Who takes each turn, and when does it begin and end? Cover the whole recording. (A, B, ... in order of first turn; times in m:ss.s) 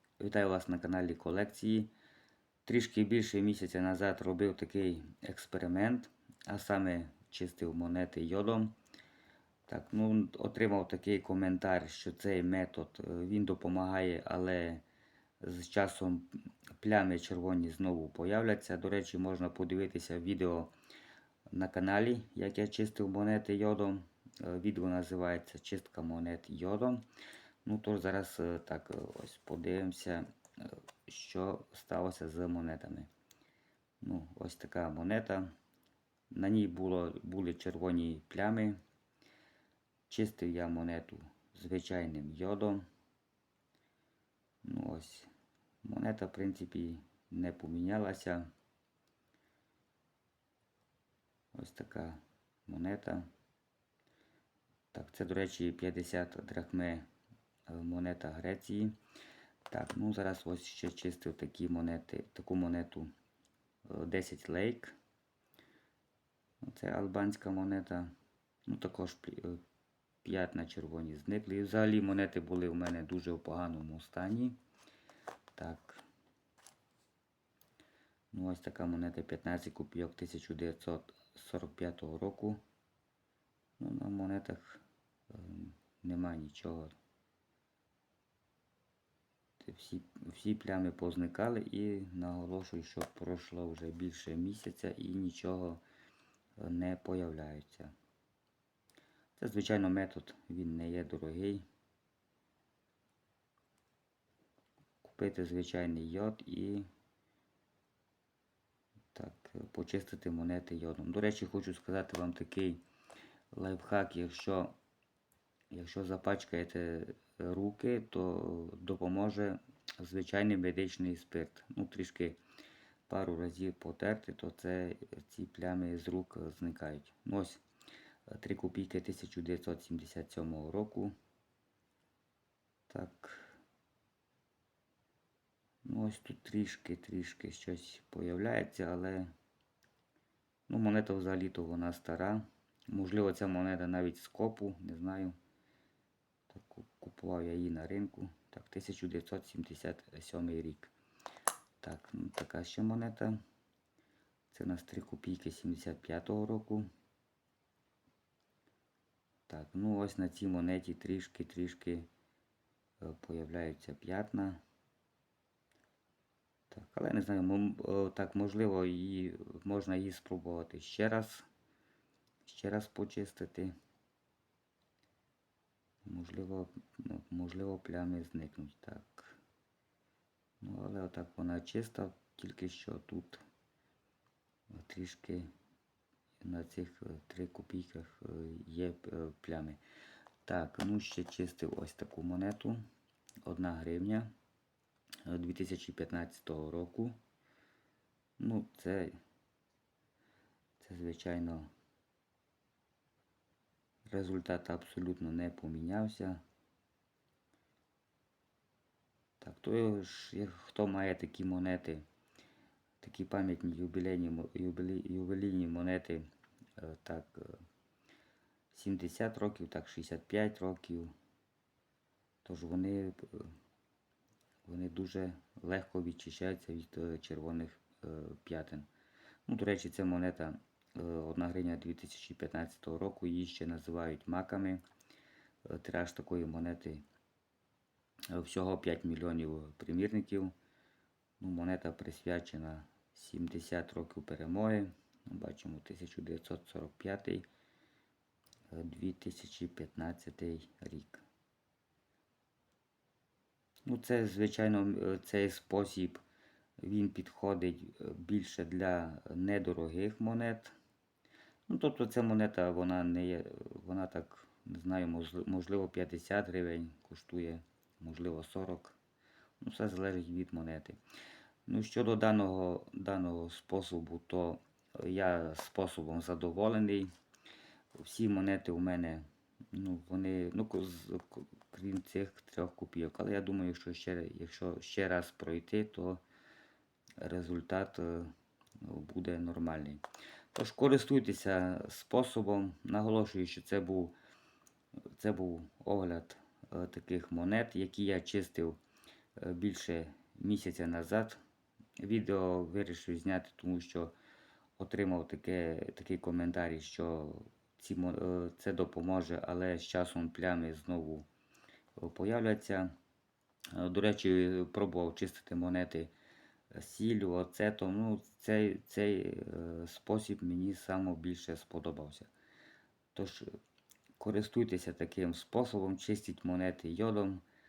0:00.2-0:01.9 A
0:02.6-0:08.8 A
0:09.7-0:14.8 A
0:15.4-0:20.7 A
0:21.5-0:27.0 A
0:27.6-0:33.1 A
0:34.0-0:35.5 A
0:36.3-0:38.8 A
0:40.1-0:42.9 A
0:44.6-0:45.3 A
0:45.8-0:48.5 A
0:51.5-0:53.3 A
0:54.9-0:57.1 A
0:57.7-0:59.0 A
0:59.7-1:03.1 A
1:03.9-1:05.0 A
1:06.6-1:08.1 A
1:08.7-1:09.6 A
1:10.2-1:14.6 A
1:15.6-1:16.0 A
1:18.3-1:22.6 A
1:23.8-1:27.0 A
1:29.6-1:35.8 A
1:36.6-1:37.9 A
1:39.4-1:41.6 A
1:45.0-1:46.9 A
1:49.1-1:52.8 A
1:53.5-1:54.8 A
1:55.7-2:02.4 A
2:03.1-2:07.6 A
2:08.3-2:11.1 A
2:12.9-2:13.6 A
2:15.8-2:19.3 A
2:20.7-2:25.4 A
2:26.5-2:30.9 A
2:31.8-2:33.4 A
2:34.5-2:36.9 A
2:39.5-2:42.1 A
2:43.0-2:44.6 A
2:46.7-2:51.5 A
2:52.4-2:53.7 A
2:56.0-2:59.4 A
3:00.6-3:03.4 A
3:04.7-3:05.5 A
3:06.4-3:09.8 A
3:10.4-3:12.8 A
3:13.4-3:14.3 A
3:15.3-3:17.2 A
3:18.4-3:19.2 A
3:20.8-3:21.7 A
3:24.1-3:26.4 A
3:29.4-3:32.0 A
3:33.0-3:37.6 A
3:38.7-3:41.1 A
3:42.4-3:43.5 A
3:44.7-3:48.9 A
3:49.5-3:54.8 A
3:55.6-3:57.0 A
3:58.3-4:00.5 A
4:01.4-4:07.5 A
4:08.7-4:11.2 A
4:13.9-4:16.2 A
4:16.8-4:20.8 A
4:21.7-4:29.0 A
4:29.6-4:31.0 A
4:31.7-4:37.1 A
4:38.0-4:46.2 A
4:47.2-4:50.0 A
4:50.5-4:54.2 A
4:55.1-4:58.8 A
4:59.4-5:01.4 A
5:02.0-5:04.2 A
5:04.8-5:11.3 A
5:12.0-5:12.9 A
5:13.7-5:16.1 A
5:16.7-5:22.3 A
5:23.1-5:23.5 A
5:24.2-5:27.4 A